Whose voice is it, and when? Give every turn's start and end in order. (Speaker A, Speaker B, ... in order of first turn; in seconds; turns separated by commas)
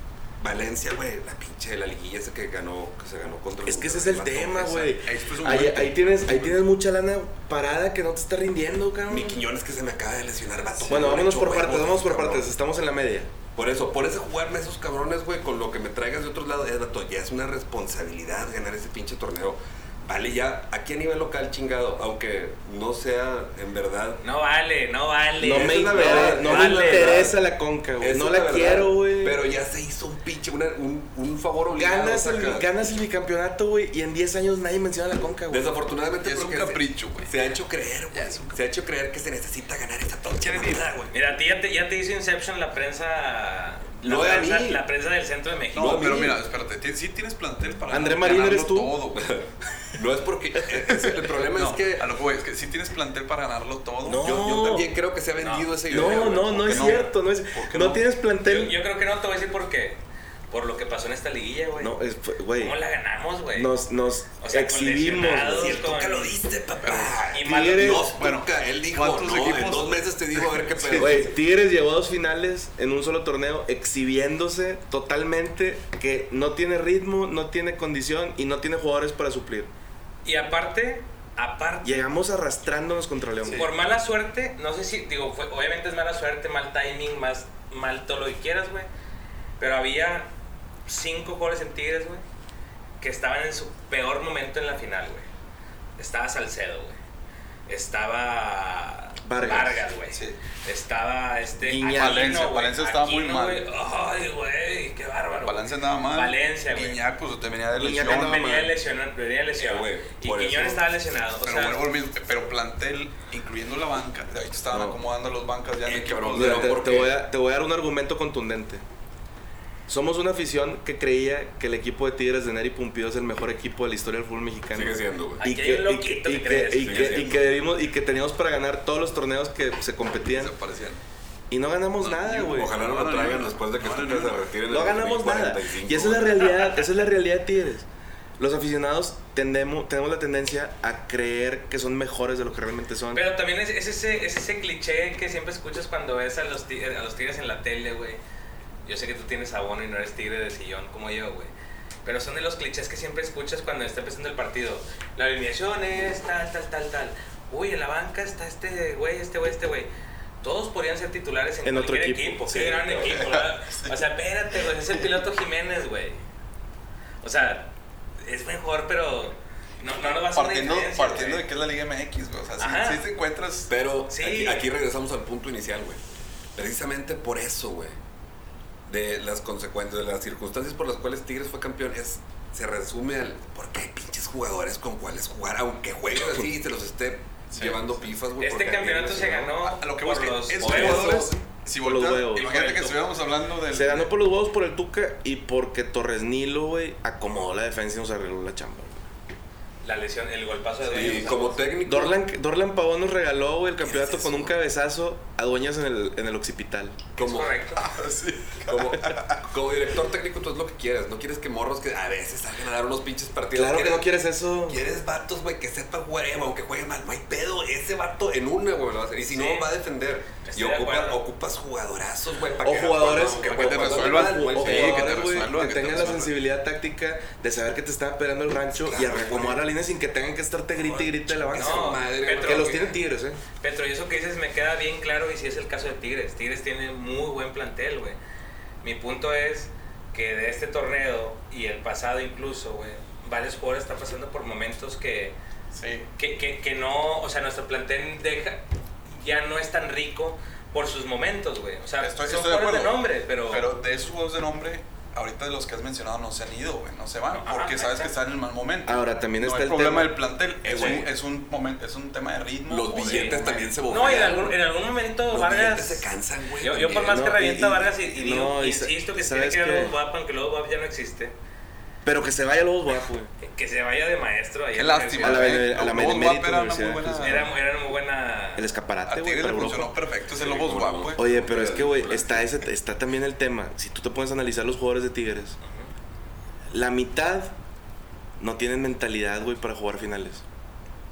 Speaker A: 0.4-5.0, Speaker B: 3.6-9.4, Speaker C: 4.9-6.6, Speaker A: 9.1-12.5, Speaker B: 10.8-13.3, Speaker A: 13.5-24.2, Speaker D: 24.2-27.3, Speaker B: 25.4-29.4, Speaker A: 25.4-27.4, Speaker A: 28.0-32.7, Speaker B: 31.7-35.7, Speaker A: 35.5-41.1, Speaker C: 36.2-37.3, Speaker C: 38.1-38.6, Speaker D: 41.1-46.3, Speaker A: 44.0-44.8, Speaker C: 45.7-49.3, Speaker A: 45.8-46.4, Speaker B: 47.9-48.9, Speaker A: 49.1-52.1, Speaker C: 51.0-54.3, Speaker B: 54.0-54.9, Speaker A: 54.2-57.0, Speaker D: 55.4-56.4, Speaker B: 55.9-58.8, Speaker C: 56.0-58.0, Speaker D: 58.4-62.0, Speaker B: 61.8-62.8, Speaker D: 62.6-63.7, Speaker B: 63.5-65.8, Speaker D: 64.4-66.3, Speaker A: 65.5-71.3, Speaker C: 66.8-67.2, Speaker D: 67.3-68.1, Speaker B: 67.4-68.1, Speaker C: 68.1-71.2, Speaker B: 70.9-79.7, Speaker D: 80.2-81.9, Speaker B: 81.8-83.7, Speaker C: 83.4-83.7, Speaker D: 83.4-88.9, Speaker D: 89.6-90.3, Speaker D: 90.8-92.2, Speaker D: 93.0-95.3, Speaker D: 96.0-97.0, Speaker D: 97.7-107.0, Speaker B: 99.2-99.8, Speaker C: 100.1-100.4, Speaker B: 101.6-102.3, Speaker C: 101.9-103.6, Speaker C: 105.4-108.4, Speaker B: 107.7-108.7, Speaker D: 107.9-111.8, Speaker A: 109.6-110.8, Speaker C: 111.4-117.0, Speaker B: 114.7-115.0, Speaker A: 115.8-117.2, Speaker B: 116.3-118.8, Speaker B: 119.9-130.5, Speaker A: 124.7-125.4, Speaker D: 125.4-127.3, Speaker A: 126.8-127.5, Speaker C: 130.2-131.0, Speaker B: 131.5-132.7, Speaker C: 132.0-134.5, Speaker A: 132.4-136.6, Speaker B: 134.7-137.8, Speaker B: 138.4-143.2, Speaker D: 143.1-148.2, Speaker D: 148.8-151.5, Speaker D: 152.0-159.9, Speaker D: 160.4-166.2, Speaker B: 161.6-163.1, Speaker C: 163.0-163.9, Speaker D: 167.2-171.4, Speaker C: 170.3-173.7, Speaker D: 172.6-173.0, Speaker A: 173.7-176.0, Speaker D: 174.1-174.7, Speaker A: 176.6-177.9, Speaker A: 178.9-189.5, Speaker C: 187.5-188.0, Speaker D: 188.4-191.1, Speaker C: 189.6-194.1, Speaker A: 190.6-191.3, Speaker B: 191.7-192.7, Speaker D: 192.3-193.0, Speaker B: 193.7-199.0, Speaker D: 199.8-201.6, Speaker A: 200.9-202.2, Speaker B: 201.8-207.0, Speaker A: 203.8-204.5, Speaker A: 207.2-207.6, Speaker D: 207.2-207.8, Speaker C: 207.8-209.4, Speaker A: 208.6-214.1, Speaker B: 213.5-214.8, Speaker A: 214.7-225.2, Speaker D: 219.2-219.7, Speaker D: 220.4-221.2, Speaker B: 222.6-233.4, Speaker C: 223.5-226.3, Speaker A: 228.8-229.6, Speaker D: 230.8-233.0, Speaker A: 231.4-232.9, Speaker D: 233.6-238.2, Speaker D: 238.8-245.3, Speaker C: 245.7-246.1, Speaker D: 246.2-253.7, Speaker C: 252.0-263.7, Speaker D: 257.3-258.1, Speaker B: 258.9-260.1, Speaker A: 260.6-261.1, Speaker A: 262.7-264.6, Speaker D: 263.0-266.1, Speaker A: 265.3-267.3, Speaker D: 266.6-271.3, Speaker B: 267.0-269.9, Speaker B: 272.0-273.3, Speaker D: 273.4-275.7, Speaker C: 274.7-277.5, Speaker B: 275.2-277.4, Speaker D: 277.2-278.7, Speaker B: 278.6-280.0, Speaker C: 279.1-281.2, Speaker A: 280.2-282.5, Speaker B: 281.1-285.6, Speaker D: 285.6-285.9, Speaker B: 286.7-287.6, Speaker B: 288.4-290.4